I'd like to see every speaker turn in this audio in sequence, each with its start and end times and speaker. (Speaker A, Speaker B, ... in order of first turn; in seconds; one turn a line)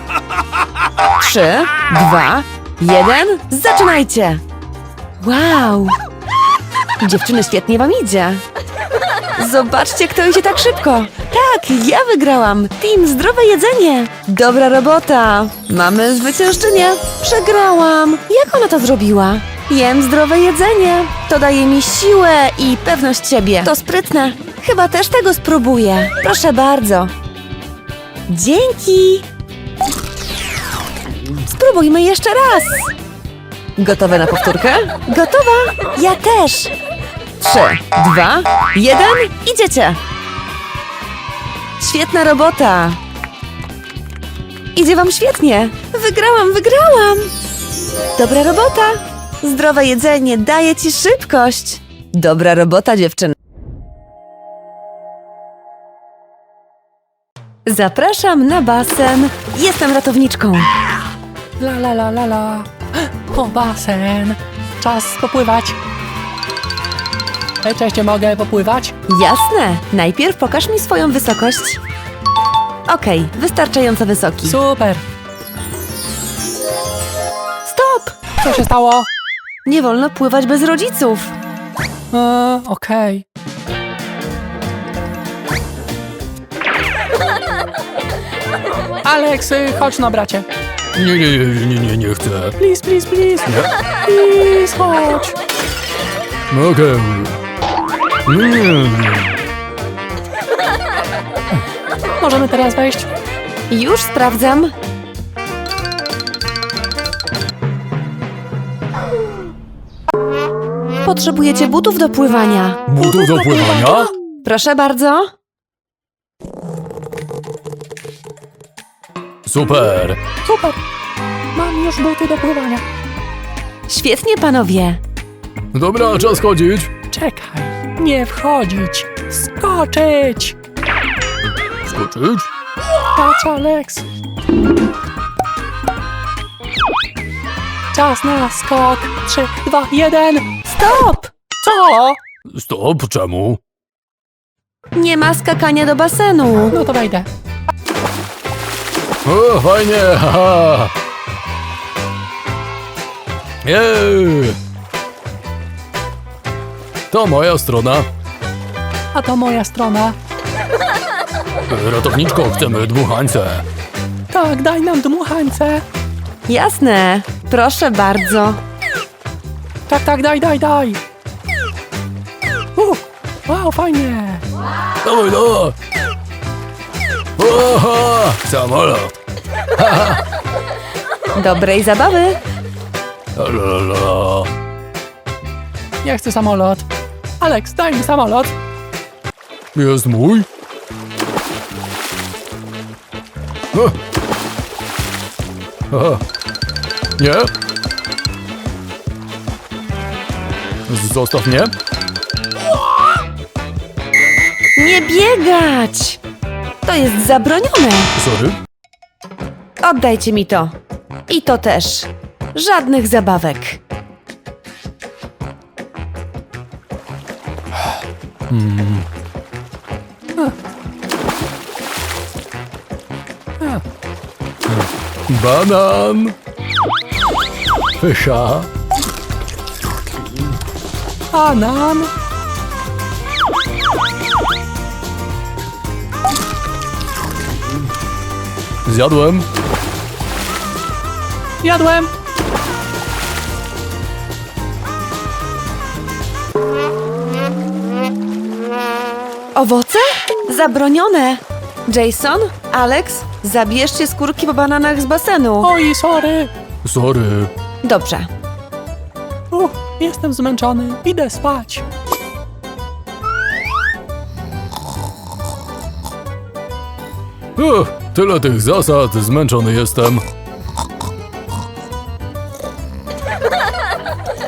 Speaker A: 1.2-4.4
Speaker A: 5.2-6.0
Speaker A: 7.0-8.4
Speaker A: 9.4-27.1
Speaker A: 28.3-29.3
Speaker A: 31.4-32.9
Speaker A: 33.8-36.7
Speaker A: 37.4-40.0
Speaker A: 41.8-43.0
Speaker A: 44.8-47.3
Speaker A: 48.2-53.3
Speaker A: 57.7-60.7
Speaker B: 61.6-65.8
Speaker B: 67.6-69.0
Speaker A: 69.1-71.8
Speaker A: 72.9-74.6
Speaker B: 74.5-75.0
Speaker A: 77.7-78.2
Speaker B: 78.4-79.1
Speaker A: 79.7-81.3
Speaker B: 82.1-83.2
Speaker B: 89.0-90.5
Speaker C: 91.0-92.6
Speaker B: 92.6-93.5
Speaker C: 93.5-93.7
Speaker B: 94.1-95.3
Speaker C: 96.5-97.4
Speaker C: 98.3-99.4
Speaker B: 102.2-103.1
Speaker A: 103.7-104.7
Speaker A: 111.0-112.8
Speaker C: 112.9-114.1
Speaker B: 113.0-114.1
Speaker A: 114.4-115.3
Speaker C: 119.5-120.2
Speaker B: 120.5-120.8
Speaker B: 121.5-122.8
Speaker A: 123.9-125.0
Speaker C: 125.7-126.9
Speaker B: 127.1-130.6
Speaker C: 131.8-132.5
Speaker B: 133.1-134.1
Speaker B: 137.9-140.5
Speaker A: 140.7-141.4
Speaker B: 141.6-142.2
Speaker C: 142.5-143.6
Speaker A: 144.9-146.8
Speaker B: 146.7-147.3
Speaker C: 149.2-150.9
Speaker C: 153.6-154.6
Speaker C: 157.1-158.1
Speaker B: 159.1-160.2
Speaker C: 161.7-163.7
Speaker B: 164.3-165.8
Speaker A: 166.5-168.6
Speaker B: 169.9-171.0
Speaker B: 172.8-174.4
Speaker C: 175.0-175.8
Speaker C: 177.4-179.2
Speaker C: 179.8-180.2
Speaker A: 181.3-182.4
Speaker C: 183.3-184.5
Speaker B: 186.0-186.9
Speaker B: 187.4-188.5
Speaker C: 189.8-190.5
Speaker C: 195.9-196.2
Speaker C: 197.2-197.5
Speaker C: 200.9-201.7
Speaker A: 204.8-206.2
Speaker A: 206.8-208.1
Speaker C: 208.2-208.6
Speaker A: 209.8-210.7
Speaker A: 211.3-213.8
Speaker C: 218.5-219.1
Speaker C: 224.7-226.3
Speaker C: 228.0-228.7
Speaker B: 231.3-232.1
Speaker C: 238.8-239.5
Speaker B: 241.6-242.1
Speaker A: 249.6-255.7
Speaker B: 255.6-256.5
Speaker C: 256.8-257.5
Speaker A: 257.8-258.3
Speaker B: 259.5-261.8
Speaker C: 267.6-270.2